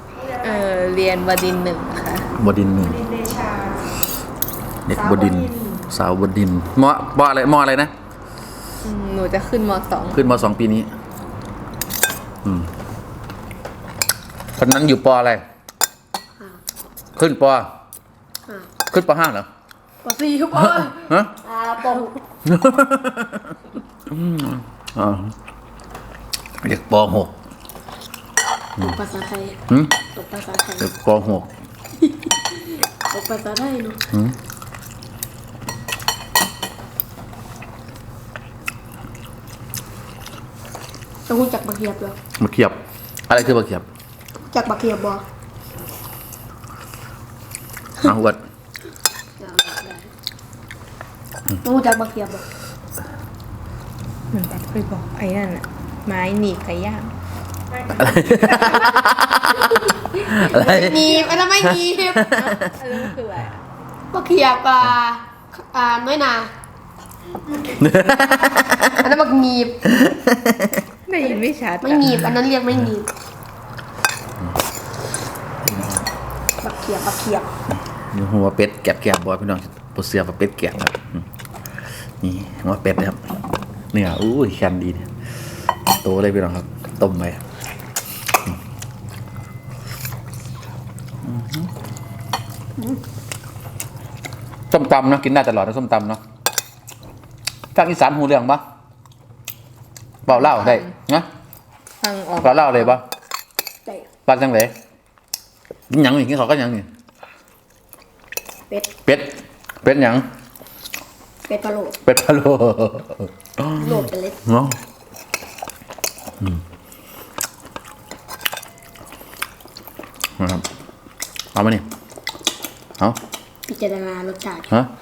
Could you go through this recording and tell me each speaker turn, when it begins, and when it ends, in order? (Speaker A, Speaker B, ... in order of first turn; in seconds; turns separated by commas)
Speaker A: 0.1-0.8, Speaker B: 0.4-2.3, Speaker C: 2.4-3.0, Speaker A: 2.8-3.9, Speaker C: 4.9-7.9, Speaker A: 4.9-5.8, Speaker B: 8.8-10.2, Speaker C: 10.1-10.9, Speaker C: 12.4-12.7, Speaker C: 14.6-15.4, Speaker C: 17.2-17.7, Speaker C: 18.9-19.5, Speaker D: 20.0-22.2, Speaker C: 20.8-21.3, Speaker C: 22.4-23.6, Speaker C: 24.1-25.3, Speaker C: 26.6-27.3, Speaker D: 28.8-29.6, Speaker C: 29.7-30.0, Speaker D: 30.1-30.9, Speaker C: 30.8-31.5, Speaker D: 32.0-34.0, Speaker D: 41.3-42.2, Speaker C: 42.4-42.8, Speaker C: 43.3-43.9, Speaker D: 44.5-45.2, Speaker C: 48.0-48.4, Speaker D: 49.4-50.1, Speaker D: 51.6-52.5, Speaker B: 54.3-57.1, Speaker A: 57.7-59.1, Speaker C: 58.0-63.0, Speaker D: 60.3-62.3, Speaker B: 62.3-63.6, Speaker D: 64.1-66.5, Speaker C: 67.8-69.0, Speaker D: 68.9-69.8, Speaker C: 69.9-70.8, Speaker B: 71.1-72.2, Speaker D: 71.2-73.1, Speaker C: 75.7-76.0, Speaker D: 76.6-77.5, Speaker C: 78.1-81.3, Speaker C: 82.2-83.2, Speaker C: 83.9-85.1, Speaker C: 85.9-87.4, Speaker C: 91.2-91.7, Speaker C: 94.7-96.2, Speaker C: 97.8-98.6, Speaker C: 100.2-101.3, Speaker B: 100.3-100.9, Speaker B: 102.0-103.0, Speaker C: 102.4-103.0, Speaker C: 104.3-104.7, Speaker C: 105.9-106.9, Speaker C: 109.0-110.3, Speaker D: 111.5-112.0, Speaker C: 112.0-114.8, Speaker D: 113.8-114.4, Speaker C: 120.4-120.7, Speaker C: 121.5-121.8, Speaker D: 123.7-124.7